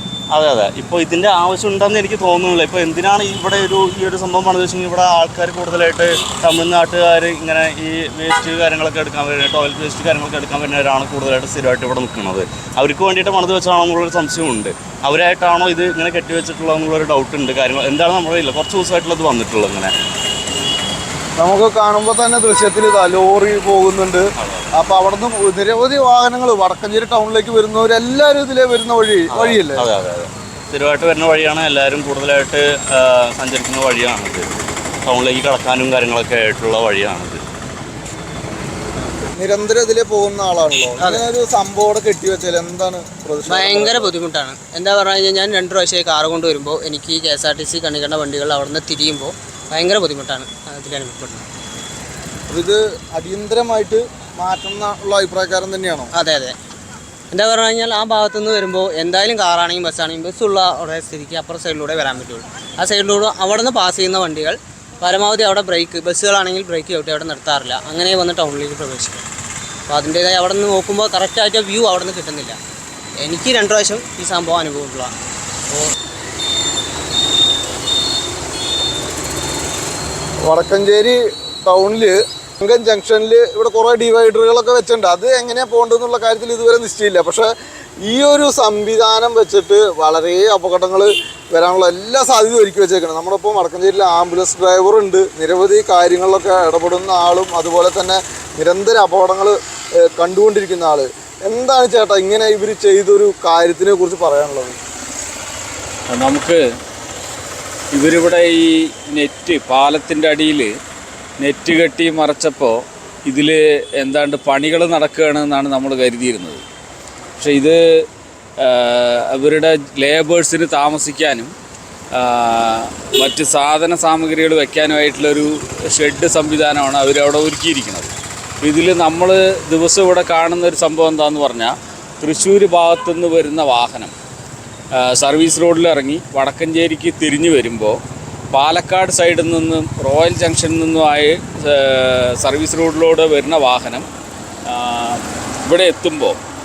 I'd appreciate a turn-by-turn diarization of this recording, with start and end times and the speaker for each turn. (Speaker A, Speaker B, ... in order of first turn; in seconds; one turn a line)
Speaker A: 0.3-19.9
Speaker B: 21.4-29.9
Speaker A: 24.4-24.7
Speaker A: 29.3-37.4
Speaker B: 39.3-44.1
Speaker C: 41.0-41.2
Speaker C: 43.5-51.5
Speaker B: 52.5-56.1
Speaker C: 56.1-56.6
Speaker C: 57.3-69.3
Speaker C: 69.9-72.6
Speaker C: 73.2-75.1
Speaker B: 80.4-87.5
Speaker B: 88.0-99.5
Speaker B: 100.1-104.8
Speaker D: 106.1-106.6
Speaker D: 107.9-110.7
Speaker D: 111.4-116.6
Speaker D: 117.4-117.8
Speaker D: 118.6-121.5
Speaker D: 122.1-134.1
Speaker D: 134.9-138.0
Speaker D: 138.5-144.1
Speaker D: 144.7-146.4